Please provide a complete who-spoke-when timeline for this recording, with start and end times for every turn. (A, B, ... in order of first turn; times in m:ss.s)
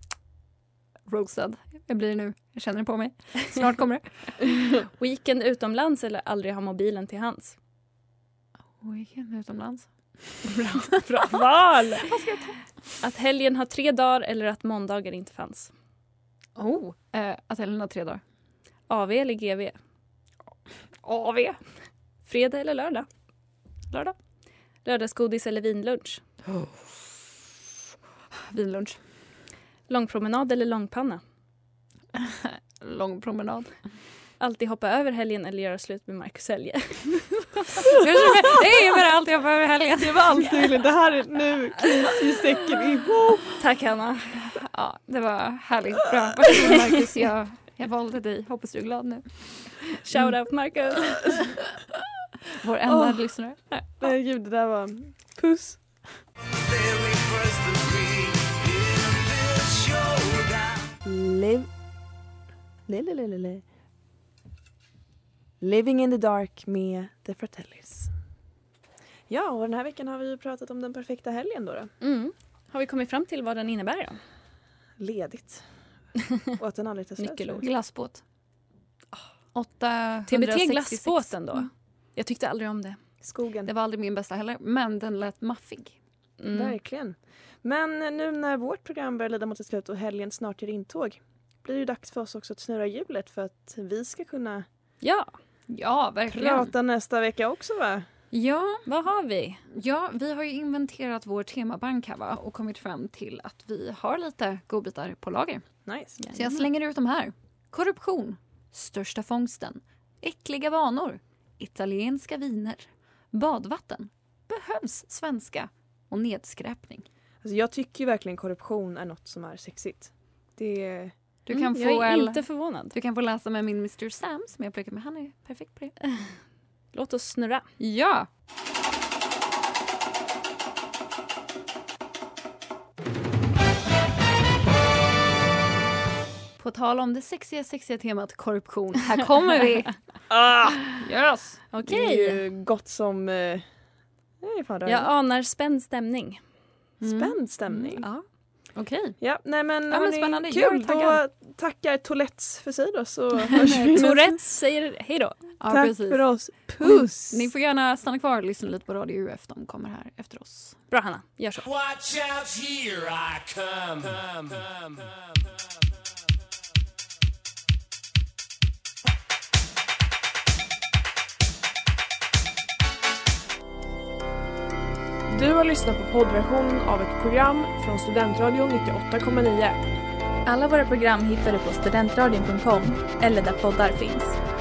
0:01.1-0:04.4 A
0:04.8-0:07.6 B
0:08.8-0:10.4 A
0:10.4-0:12.1 B
0:12.0-0:12.5 A
0:13.0-0:15.7 B
0:16.6-0:18.2 A
0:18.9-0:19.8 B
0:21.0-0:21.6 A
0:22.2-0:23.1 B
0:24.8-0:26.2 B
0:28.5-0:29.0 A
0:29.9-0:31.2 B
0:32.2-0:33.7 A
0:34.4-0:37.9 B
0:38.0-0:40.8 A
0:40.0-0:43.5 C
0:43.6-0:44.5 B
0:44.6-0:49.7 A
0:50.0-0:51.3 B
0:52.5-0:53.8 A
0:52.9-0:53.2 C
0:54.0-0:55.8 C
0:56.6-1:00.9 D
1:01.0-1:01.7 C
1:02.9-1:03.6 C
1:05.6-1:08.1 C
1:09.3-1:11.9 C
1:12.0-1:14.2 B
1:15.0-1:15.6 C
1:16.6-1:17.6 C
1:17.2-1:17.6 B
1:17.6-1:18.2 A
1:19.5-1:21.6 A
1:20.3-1:23.0 B
1:23.2-1:23.7 C
1:23.6-1:26.0 A
1:26.4-1:26.8 B
1:26.5-1:34.6 C
1:35.0-1:35.3 B
1:35.7-1:36.7 A
1:36.3-1:38.0 C
1:38.3-1:38.8 A
1:38.8-1:39.6 B
1:39.7-1:45.6 A
1:45.8-1:46.2 C
1:46.2-1:46.5 B
1:46.3-1:57.0 A
1:57.4-2:01.1 C
2:01.5-2:05.9 A
2:01.5-2:02.9 B
2:06.9-2:07.6 B
2:07.8-2:08.3 A
2:16.6-2:20.0 A
2:20.3-2:20.7 C
2:20.8-2:21.6 A
2:21.7-2:22.4 B
2:21.8-2:23.6 C
2:24.4-2:25.1 C
2:24.8-2:26.4 B
2:27.0-2:28.1 A
2:27.0-2:28.1 C
2:28.7-2:29.2 A
2:29.2-2:34.4 C
2:29.9-2:31.2 A
2:33.6-2:35.4 B
2:35.6-2:36.3 A
2:35.7-2:37.4 C
2:36.8-2:40.8 A
2:40.9-2:41.7 B
2:41.8-2:45.0 D
2:55.3-2:59.8 E
3:00.4-3:04.4 F